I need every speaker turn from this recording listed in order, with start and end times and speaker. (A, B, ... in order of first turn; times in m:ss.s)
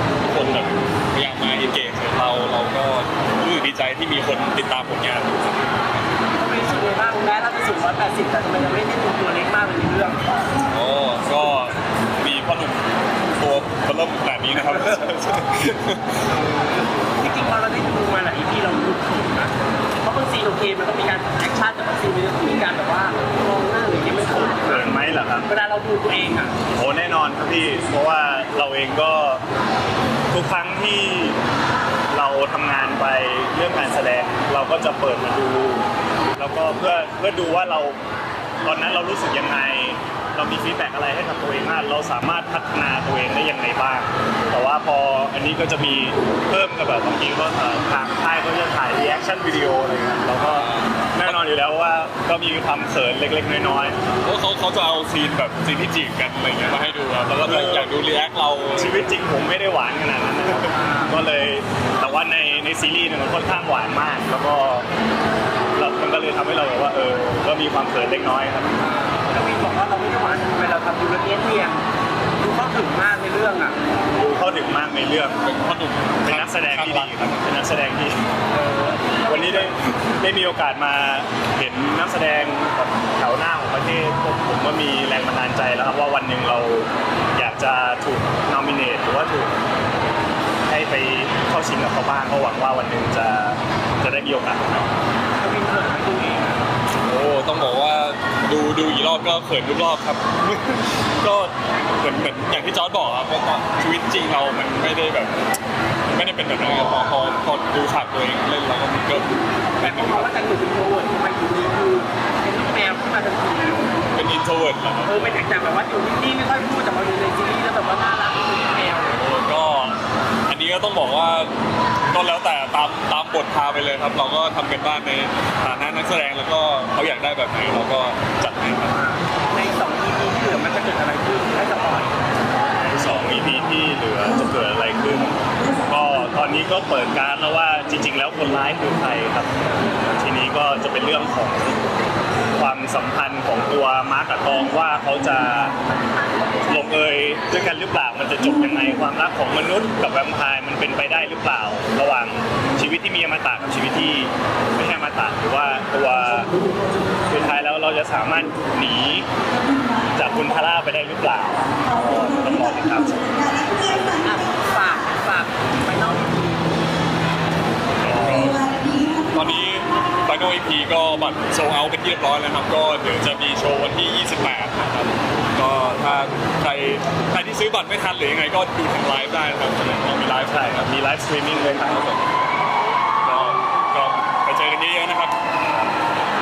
0:00.2-0:05.7 A
0:06.3-0:10.2 B
0:10.6-0:12.8 A
0:13.4-0:16.3 A
0:16.4-0:26.5 B
0:24.6-0:25.5 C
0:26.7-0:29.4 C
0:30.3-0:31.4 C
0:32.1-0:35.8 C
0:36.4-0:38.0 C
0:38.6-0:53.9 C
0:50.4-0:51.4 A
0:54.2-0:59.0 A
0:57.4-0:57.9 C
0:58.8-1:04.8 C
1:00.7-1:01.1 B
1:05.7-1:08.7 C
1:08.8-1:11.8 B
1:12.4-1:13.8 B
1:14.2-1:15.4 C
1:15.4-1:17.4 A
1:16.2-1:18.2 C
1:18.5-1:19.8 B
1:19.3-1:29.6 C
1:30.7-1:34.9 C
1:35.4-1:36.7 B
1:37.1-1:45.4 A
1:46.1-1:50.3 A
1:49.8-1:53.9 B
1:54.1-1:55.4 A
1:55.0-1:59.2 B
1:59.1-2:01.5 A
2:02.1-2:08.9 A
2:08.9-2:12.2 B
2:12.7-2:19.5 C
2:20.0-2:21.8 C
2:22.6-2:25.8 C
2:26.7-2:36.5 C
2:37.3-2:39.2 C
2:40.1-2:43.6 C
2:44.0-2:46.7 B
2:48.0-2:48.4 C
2:48.0-3:00.9 A
3:00.4-3:02.0 C
3:01.8-3:02.2 A
3:03.2-3:05.4 A